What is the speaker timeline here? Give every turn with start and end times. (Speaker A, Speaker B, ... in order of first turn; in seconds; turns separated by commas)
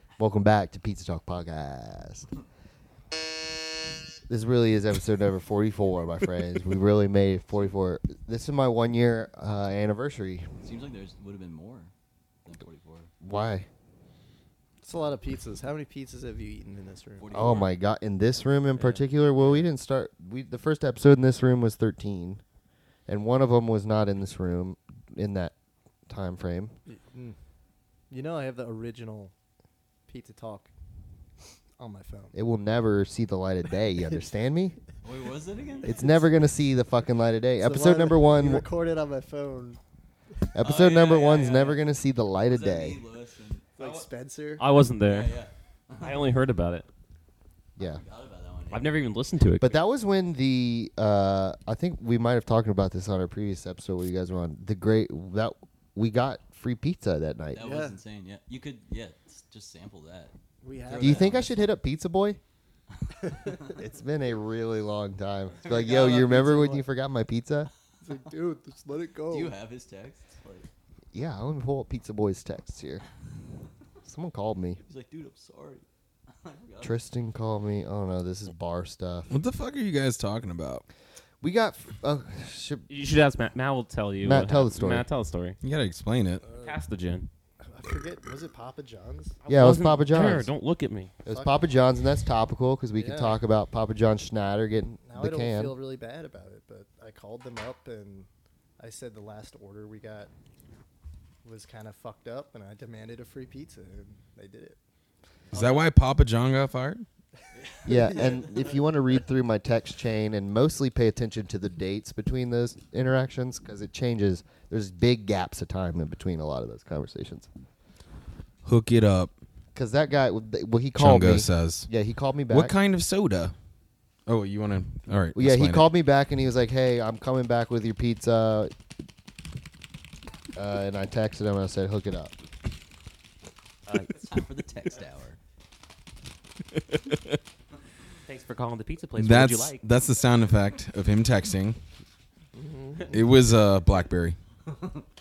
Speaker A: 0.2-2.3, Speaker A: 4.3-10.5, Speaker B: 10.6-11.9, Speaker B: 12.4-13.1, Speaker A: 13.2-13.7, Speaker C: 14.8-17.4, Speaker B: 17.2-17.7, Speaker A: 17.3-22.4, Speaker A: 23.1-25.5, Speaker A: 26.1-26.7, Speaker C: 26.9-27.4, Speaker C: 28.1-29.3, Speaker C: 30.1-30.7, Speaker C: 31.8-32.3, Speaker A: 32.3-34.8, Speaker B: 35.0-36.0, Speaker A: 35.8-38.7, Speaker C: 37.6-39.8, Speaker A: 40.5-43.0, Speaker B: 40.6-41.8, Speaker B: 42.5-44.0, Speaker C: 43.8-44.7, Speaker D: 44.6-45.3, Speaker B: 45.0-46.2, Speaker D: 46.0-46.9, Speaker A: 47.8-48.0, Speaker B: 47.8-49.0, Speaker D: 48.7-49.8, Speaker A: 49.6-57.7, Speaker B: 57.5-61.6, Speaker C: 57.6-58.0, Speaker C: 60.6-61.5, Speaker A: 61.0-62.4, Speaker C: 63.2-63.7, Speaker A: 63.8-67.7, Speaker B: 65.6-66.3, Speaker C: 65.7-66.8, Speaker C: 68.0-69.5, Speaker B: 69.3-70.7, Speaker A: 71.1-73.0, Speaker A: 74.0-74.8, Speaker B: 74.8-77.0, Speaker A: 76.8-79.3, Speaker E: 79.3-80.8, Speaker A: 81.4-82.8, Speaker D: 82.9-85.6, Speaker A: 84.2-85.0, Speaker E: 85.6-86.4, Speaker C: 86.4-86.8, Speaker D: 86.6-87.3, Speaker C: 87.6-89.4, Speaker D: 89.4-91.1, Speaker A: 89.5-90.5, Speaker A: 91.2-95.8, Speaker C: 91.3-91.6, Speaker C: 93.0-93.4, Speaker C: 95.0-98.3, Speaker C: 98.8-100.3, Speaker C: 101.4-104.8, Speaker B: 105.5-105.8, Speaker E: 105.5-107.0, Speaker B: 107.5-108.5, Speaker A: 107.8-117.5, Speaker E: 118.6-119.3, Speaker A: 119.7-122.7, Speaker E: 121.0-121.9, Speaker E: 122.5-123.5, Speaker E: 124.3-125.8, Speaker A: 125.3-128.7, Speaker A: 130.5-132.3, Speaker D: 133.9-134.4, Speaker B: 134.1-135.4, Speaker D: 138.3-139.8, Speaker E: 139.2-141.8, Speaker C: 142.5-143.3, Speaker E: 143.1-144.4